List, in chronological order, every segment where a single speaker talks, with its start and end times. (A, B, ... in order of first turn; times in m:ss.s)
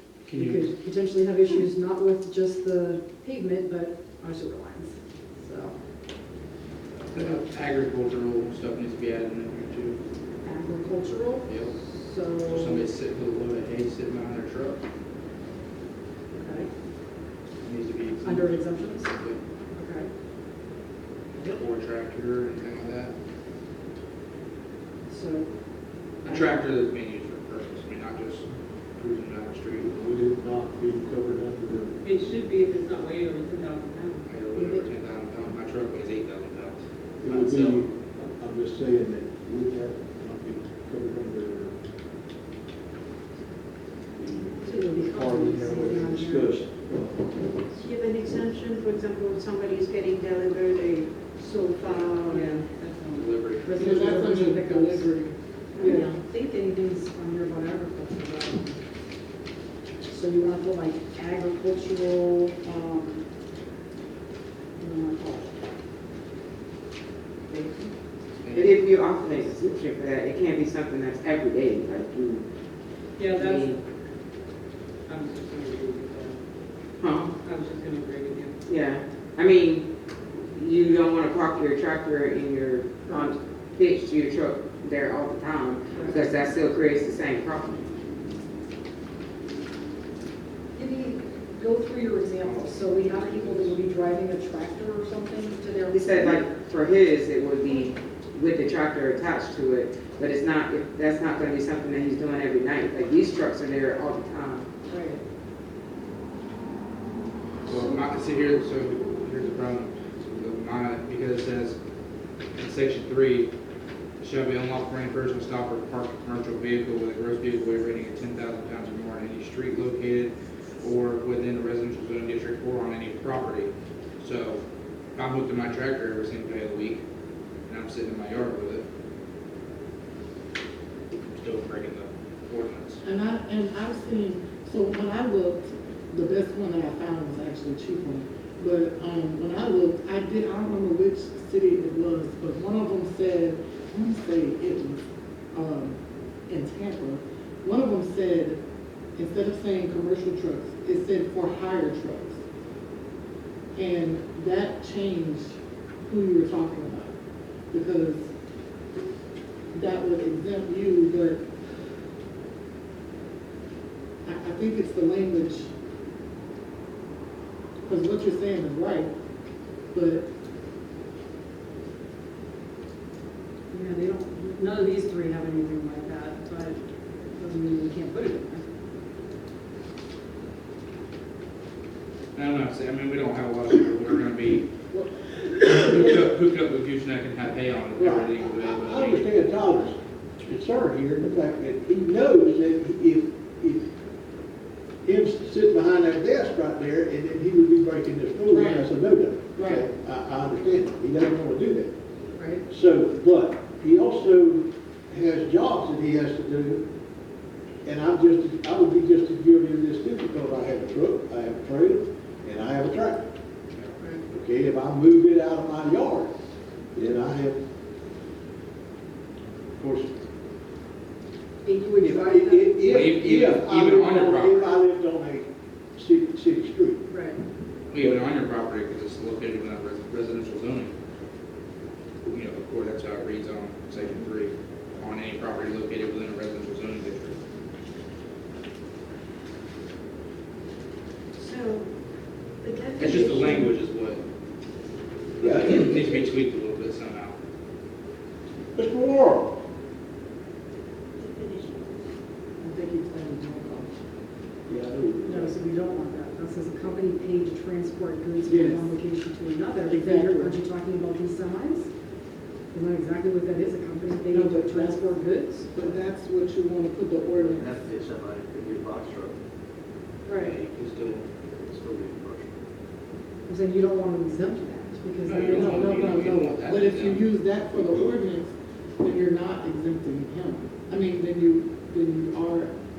0:00.2-0:00.7 A
0:00.3-0:05.8 B
0:07.1-0:10.0 A
0:07.1-0:07.4 B
0:10.4-0:12.8 B
0:11.4-0:11.7 A
0:12.5-0:14.8 A
0:16.3-0:16.7 B
0:17.6-0:19.4 A
0:18.2-0:19.1 B
0:19.7-0:20.1 B
0:21.3-0:23.1 A
0:25.1-0:25.5 B
0:26.2-0:26.6 B
0:26.2-0:28.4 A
0:29.0-0:29.9 A
0:29.9-0:32.0 C
0:32.0-0:34.2 D
0:34.3-0:37.9 A
0:37.2-0:41.8 C
0:44.2-0:47.3 C
0:44.7-0:46.5 B
0:47.8-0:52.6 E
0:51.8-0:53.4 D
0:53.1-0:53.8 A
0:53.6-0:55.1 B
0:53.7-0:56.1 F
0:55.8-0:58.8 B
1:00.0-1:03.2 B
1:04.8-1:05.5 B
1:07.5-1:07.9 B
1:08.4-1:09.1 A
1:08.5-1:12.4 G
1:13.2-1:13.8 D
1:13.3-1:13.8 G
1:15.0-1:16.4 D
1:17.0-1:17.3 G
1:17.4-1:18.6 D
1:18.7-1:19.8 G
1:20.4-1:27.8 G
1:25.9-1:26.2 B
1:30.7-1:36.5 B
1:32.4-1:33.8 A
1:35.9-1:44.7 G
1:44.9-1:45.2 B
1:47.6-1:51.8 A
1:52.5-1:53.5 A
1:54.2-2:04.6 A
2:05.1-2:07.0 A
2:07.6-2:08.8 A
2:11.3-2:13.0 A
2:13.0-2:28.6 F
2:29.2-2:32.4 F
2:33.7-2:37.1 F
2:37.7-2:38.3 F
2:39.7-2:41.4 F
2:44.2-2:45.7 F
2:47.8-2:49.1 F
2:49.9-2:50.3 F
2:53.7-2:56.8 B
2:57.3-2:58.6 B
3:02.3-3:04.7 A
3:05.6-3:09.3 A
3:08.0-3:13.8 C
3:15.0-3:21.9 C
3:18.5-3:18.9 F
3:19.5-3:19.8 F
3:22.4-3:22.6 B
3:22.7-3:26.9 C
3:27.8-3:33.2 C
3:34.3-3:36.3 C
3:36.9-3:37.6 C
3:39.8-3:40.1 C
3:41.6-3:42.9 B
3:42.0-3:47.0 C
3:42.8-3:44.7 A
3:47.1-3:47.4 B
3:47.9-3:50.9 A
3:52.2-3:57.4 A
4:01.4-4:01.8 E
4:02.6-4:03.5 E
4:03.0-4:04.2 A
4:05.4-4:07.4 A
4:05.4-4:06.3 C
4:08.7-4:09.6 C
4:11.2-4:11.7 E
4:12.6-4:13.9 F
4:14.7-4:15.6 C
4:15.2-4:21.9 B
4:18.4-4:18.9 F
4:19.9-4:20.6 F
4:22.7-4:25.7 B
4:24.3-4:25.1 F
4:25.7-4:27.7 F
4:27.4-4:29.4 H
4:30.2-4:30.6 B
4:30.3-4:31.2 A
4:31.6-4:32.6 H
4:33.5-4:36.4 B
4:35.2-4:37.2 A
4:35.4-4:42.7 F